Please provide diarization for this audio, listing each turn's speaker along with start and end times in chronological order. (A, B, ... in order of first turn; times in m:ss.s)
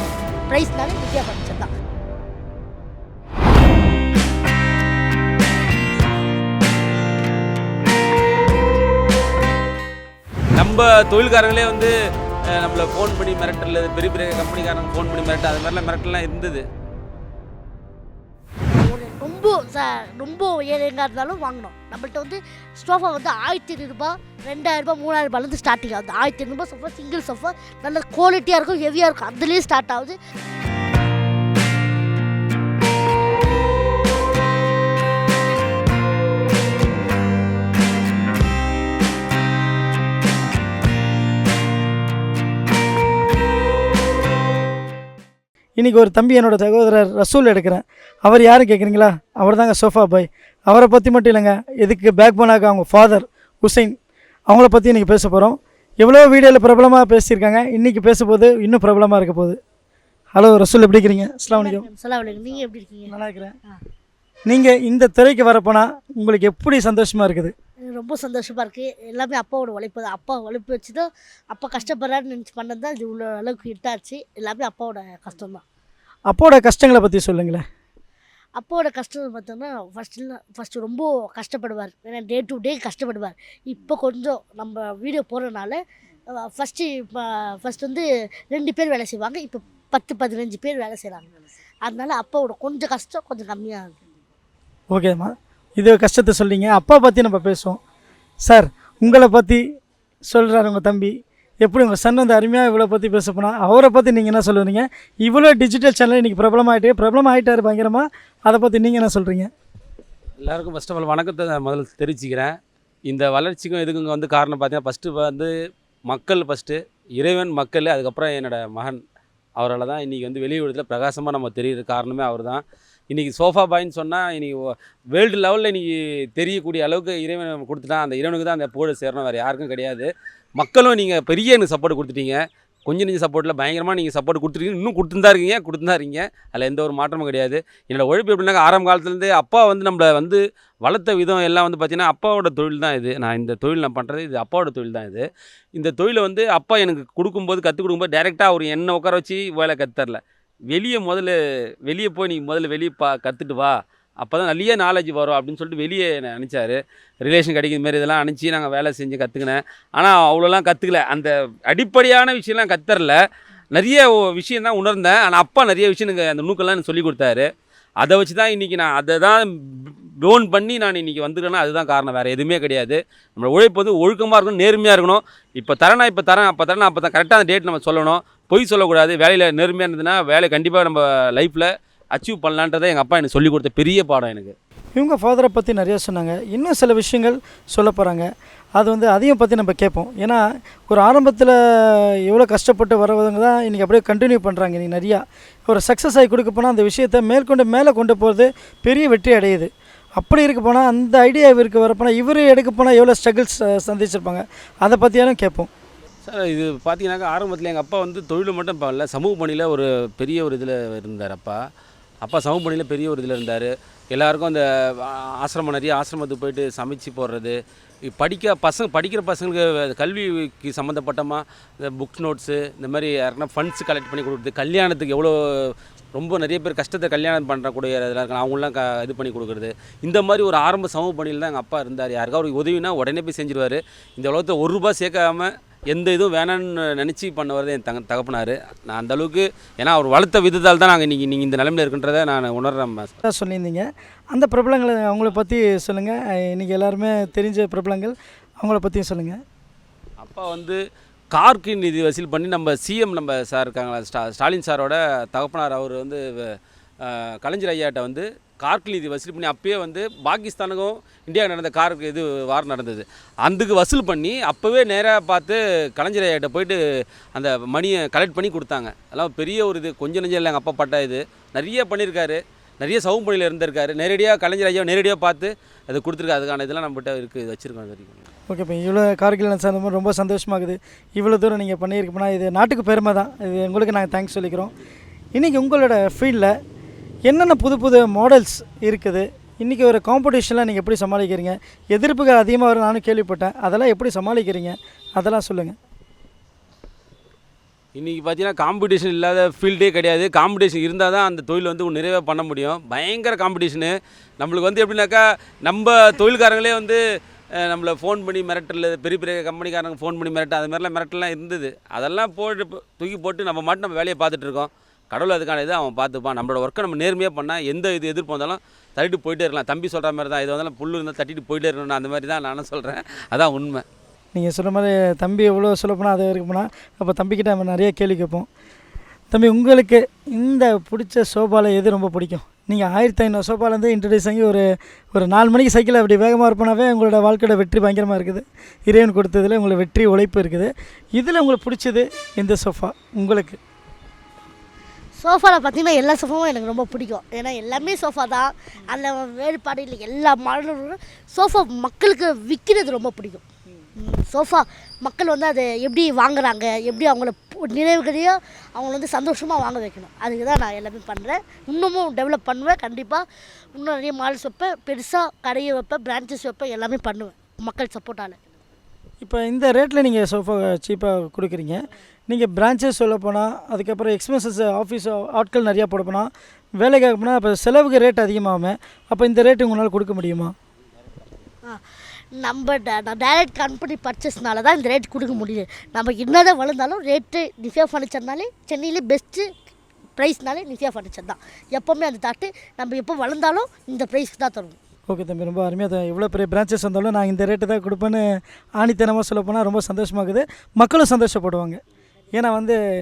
0:00.5-0:01.7 A
0:10.5-0:11.9 B
0:12.5-0:16.6 B
0:18.7-0:30.2 A
0:45.8-0:53.9 C
0:54.5-0:59.6 C
1:00.3-1:01.9 C
1:01.5-1:03.1 A
1:03.1-1:03.5 C
1:04.5-1:07.5 C
1:07.9-1:15.6 A
1:16.3-1:17.6 C
1:18.6-1:25.8 A
1:26.4-1:31.3 A
1:31.8-1:34.0 A
1:34.9-1:37.8 C
1:38.4-1:39.6 C
1:40.3-1:49.5 C
1:50.4-1:52.5 B
1:53.1-1:55.5 B
1:56.1-1:59.0 B
1:59.6-2:04.6 B
2:05.1-2:30.2 B
2:30.7-2:43.2 B
2:43.7-2:47.4 B
2:48.0-3:04.5 B
3:05.0-3:25.7 C
3:26.2-3:31.6 B
3:32.2-4:03.1 B
4:03.2-4:09.4 C
4:10.2-4:10.8 B
4:11.3-4:16.4 B
4:17.0-4:26.8 B
4:27.3-4:38.2 B
4:38.5-4:44.7 C
4:45.3-4:46.5 C
4:47.2-4:55.7 C
4:57.9-5:07.0 B
5:07.6-5:23.8 B
5:24.3-5:28.5 C
5:29.3-5:43.6 C
5:45.2-6:08.4 A
6:09.2-6:20.5 C
6:22.3-6:29.5 A
6:30.2-6:34.8 A
6:35.1-6:38.2 C
6:38.8-6:41.8 C
6:42.3-6:42.8 C